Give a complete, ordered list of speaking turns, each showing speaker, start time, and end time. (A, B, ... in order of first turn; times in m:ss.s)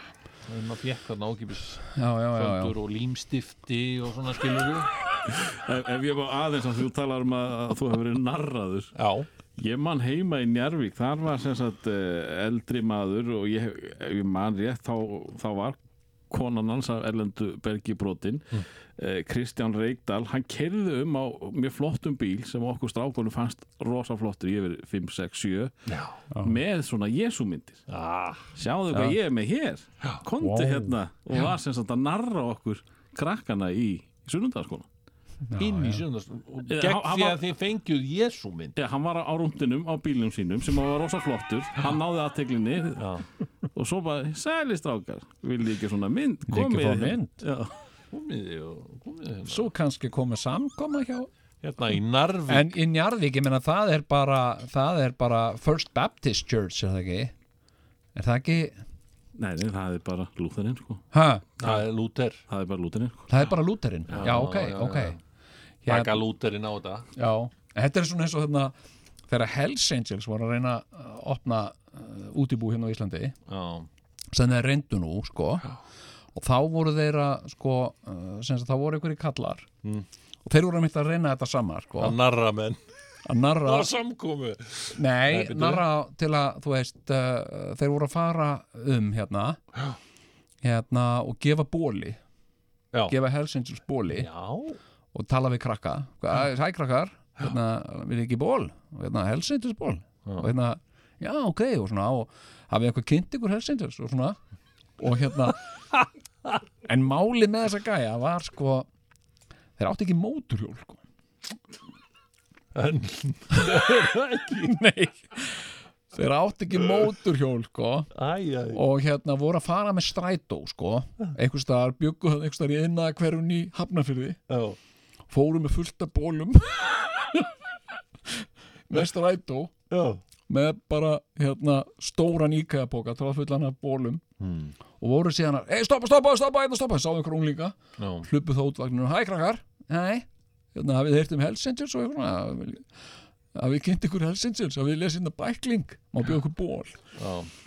0:00.4-0:04.9 A
0:01.9-0:02.7 B
0:05.3-0:09.0 C
0:08.9-0:09.3 A
0:09.6-0:15.8 C
0:16.3-0:25.7 C
0:25.9-0:26.2 A
0:26.3-0:26.6 B
0:26.4-0:27.8 C
0:27.9-0:28.5 A
0:28.5-0:34.9 C
0:28.9-0:29.2 B
0:30.4-0:31.0 B
0:35.5-0:36.0 B
0:35.6-0:38.8 A
0:36.7-0:37.4 C
0:38.8-0:43.2 C
0:43.0-0:43.2 A
0:43.7-0:47.7 C
0:46.5-0:47.4 B
0:48.1-0:49.7 A
0:49.5-0:51.3 B
0:51.6-0:52.8 A
0:52.5-0:57.3 B
0:58.2-0:58.8 B
0:59.4-1:01.0 C
1:01.1-1:01.4 B
1:01.6-1:02.4 A
1:02.5-1:03.3 C
1:03.3-1:05.2 B
1:04.1-1:05.2 A
1:05.8-1:06.2 B
1:05.9-1:07.1 A
1:07.2-1:08.7 B
1:09.3-1:13.3 B
1:13.5-1:13.9 A
1:14.3-1:15.7 B
1:16.3-1:19.7 B
1:20.4-1:22.2 B
1:22.0-1:22.8 A
1:23.2-1:23.9 B
1:23.6-1:25.8 A
1:24.9-1:29.6 B
1:30.6-1:32.2 B
1:33.1-1:34.3 B
1:34.1-1:34.8 A
1:35.1-1:44.4 B
1:45.0-1:45.6 B
1:46.8-1:48.9 B
1:49.8-1:51.0 B
1:52.7-1:54.8 A
1:54.6-1:58.1 B
1:58.1-1:58.8 A
1:58.7-2:04.4 B
2:04.5-2:04.8 A
2:05.3-2:07.5 B
2:08.3-2:09.7 B
2:09.9-2:10.2 A
2:10.5-2:14.2 B
2:14.4-2:14.7 A
2:15.0-2:22.8 B
2:18.0-2:18.3 A
2:23.5-2:27.0 B
2:27.1-2:27.5 A